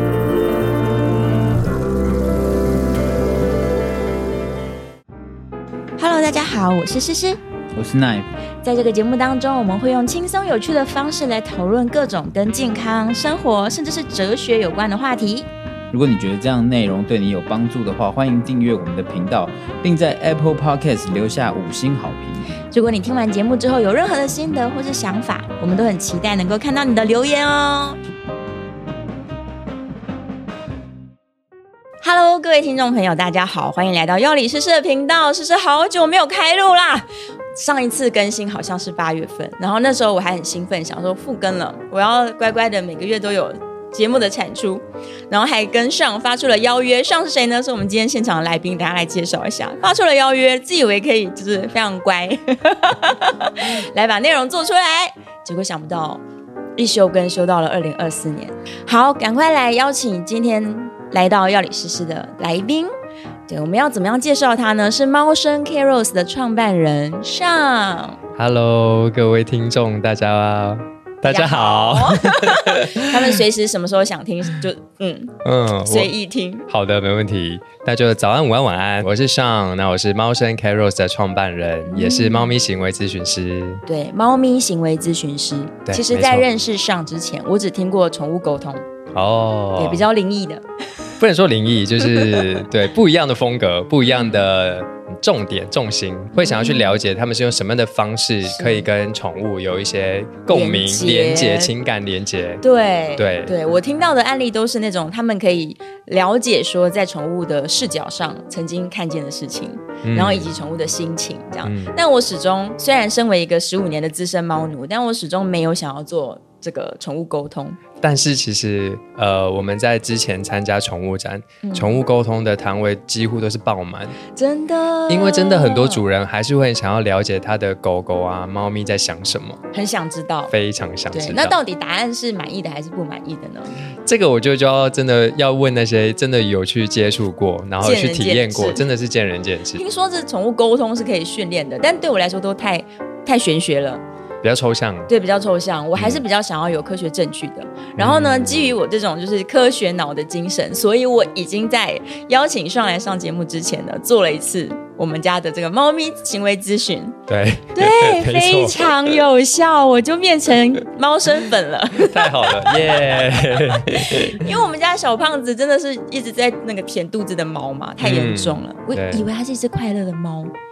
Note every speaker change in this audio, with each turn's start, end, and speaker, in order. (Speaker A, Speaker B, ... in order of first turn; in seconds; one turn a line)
Speaker A: 6.0-7.4
Speaker B: 7.7-8.3
Speaker A: 8.6-15.5
Speaker B: 15.9-22.5
Speaker A: 22.7-28.0
Speaker A: 32.0-56.2
Speaker A: 56.8-62.9
Speaker A: 63.5-68.2
Speaker C: 68.3-73.3
Speaker A: 71.2-76.7
Speaker C: 75.4-76.1
Speaker C: 76.7-83.8
Speaker A: 81.9-82.6
Speaker A: 83.8-88.8
Speaker C: 85.8-86.5
Speaker C: 89.1-90.0
Speaker A: 89.8-90.6
Speaker C: 91.2-102.6
Speaker A: 94.0-94.4
Speaker A: 96.3-97.0
Speaker A: 98.4-98.9
Speaker A: 100.5-101.7
Speaker A: 102.6-117.8
Speaker C: 103.2-103.5
Speaker C: 110.0-110.5
Speaker C: 111.6-112.0
Speaker C: 118.0-124.2
Speaker A: 121.6-122.0
Speaker A: 124.3-126.0
Speaker C: 125.1-129.6
Speaker A: 129.7-130.5
Speaker C: 130.5-131.6
Speaker A: 131.1-133.7
Speaker C: 134.0-139.8
Speaker A: 137.8-138.8
Speaker A: 139.7-144.0
Speaker C: 144.4-145.1
Speaker A: 145.1-157.2
Speaker C: 145.9-146.2
Speaker C: 147.9-148.7
Speaker C: 157.3-158.9
Speaker A: 157.7-162.9
Speaker C: 162.0-164.5
Speaker A: 163.8-170.5
Speaker C: 168.0-169.2